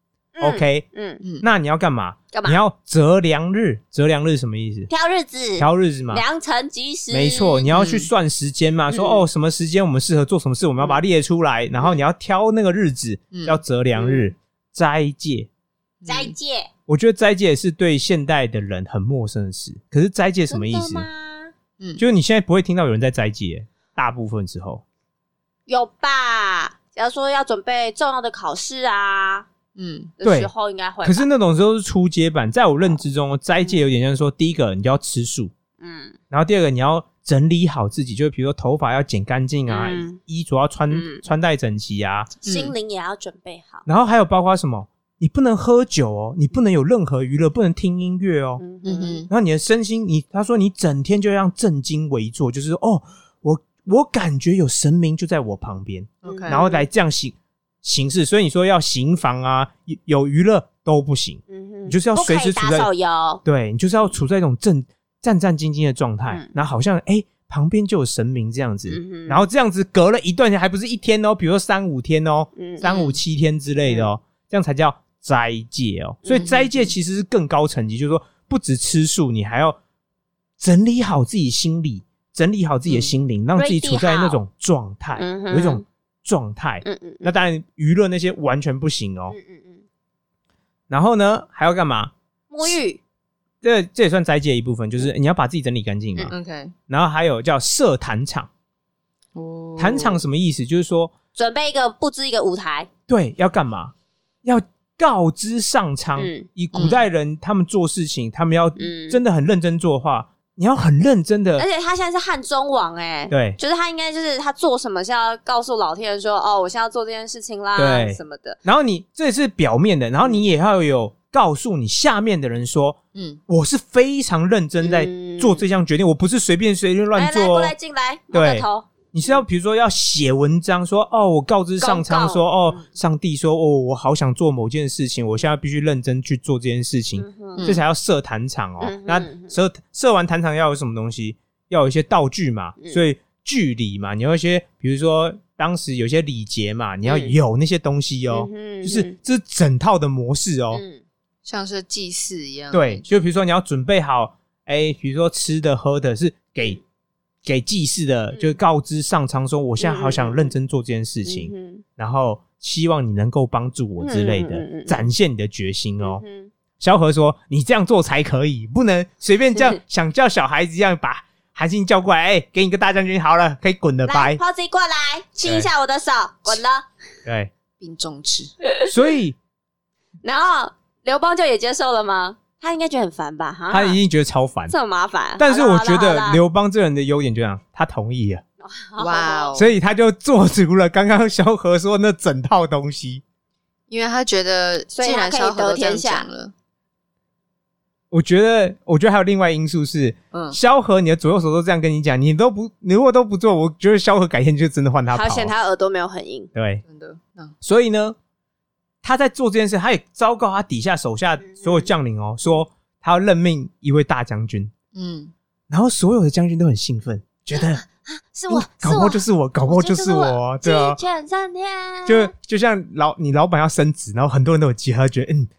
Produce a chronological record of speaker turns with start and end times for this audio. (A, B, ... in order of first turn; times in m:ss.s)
0:00.4-0:01.2 A
0:00.4-0:00.8 B
0:01.2-0:01.4 C
0:01.4-0:04.9 B
0:02.3-0:02.6 A
0:04.9-0:07.7 A
0:05.6-0:06.2 B
0:07.1-0:15.5 B
0:07.7-0:08.1 C
0:08.9-0:09.2 A
0:13.3-0:13.6 C
0:13.9-0:14.3 A
0:16.0-0:16.3 C
0:16.0-0:16.7 A
0:16.9-0:21.0 B
0:20.5-0:21.5 A
0:22.0-0:24.8 B
0:25.7-0:29.5 A
0:29.8-0:30.1 C
0:30.2-0:31.3 A
0:30.2-0:30.5 B
0:31.0-0:35.5 B
0:35.8-0:36.2 A
0:36.3-0:42.3 B
0:39.7-0:40.2 A
0:40.9-0:41.2 A
0:42.4-0:42.7 C
0:42.4-0:43.8 A
0:43.8-0:48.6 B
0:48.6-0:49.2 A
0:48.8-0:49.3 C
0:49.3-1:02.9 B
0:56.2-0:56.6 C
0:56.2-0:56.8 A
1:01.5-1:03.4 A
1:03.4-1:19.8 B
1:06.3-1:06.5 A
1:08.9-1:09.4 A
1:12.6-1:13.2 A
1:16.2-1:16.7 A
1:16.3-1:16.6 C
1:20.6-1:29.3 B
1:22.9-1:23.1 C
1:23.6-1:24.4 A
1:25.1-1:25.8 A
1:26.8-1:27.3 A
1:29.3-1:29.8 A
1:30.9-1:32.1 B
1:32.5-1:33.0 A
1:33.6-1:36.3 B
1:36.3-1:36.7 C
1:36.9-1:38.5 B
1:39.3-1:40.2 C
1:39.8-1:41.1 B
1:41.3-1:42.9 A
1:43.1-1:51.6 B
1:46.2-1:46.5 A
1:46.7-1:47.0 C
1:48.8-1:49.2 A
1:51.6-1:58.6 A
1:53.3-1:53.6 B
1:57.8-2:07.7 B
2:03.1-2:03.4 C
2:04.8-2:05.6 A
2:07.1-2:09.4 A
2:08.3-2:30.8 B
2:11.8-2:12.8 A
2:17.2-2:17.7 A
2:17.6-2:17.8 C
2:18.8-2:19.5 A
2:27.0-2:27.3 A
2:28.3-2:29.2 A
2:30.7-2:31.0 A
2:31.4-2:33.0 C
2:32.7-2:36.8 B
2:37.4-2:46.2 B
2:38.3-2:38.6 A
2:39.8-2:40.5 A
2:41.2-2:41.8 A
2:44.0-2:45.1 A
2:46.0-2:46.5 A
2:46.8-2:54.4 B
2:54.0-2:56.9 A
2:55.4-2:55.7 B
2:57.2-2:57.5 B
2:57.8-2:58.5 C
2:58.8-2:59.4 B
3:00.2-3:04.0 A
3:03.7-3:04.7 B
3:04.7-3:06.4 A
3:05.4-3:08.4 B
3:08.6-3:09.6 A
3:09.0-3:09.7 C
3:09.5-3:13.2 B
3:13.9-3:16.5 C
3:14.9-3:16.2 A
3:18.1-3:25.6 B
3:20.3-3:20.6 C
3:25.1-3:26.5 A
3:26.5-3:26.8 B
3:26.8-3:27.5 C
3:27.6-3:28.2 B
3:29.0-3:34.7 B
3:31.4-3:31.9 A
3:34.9-3:35.3 C
3:35.7-3:37.8 B
3:37.5-3:42.3 A
3:38.5-3:41.0 B
3:42.0-3:45.5 B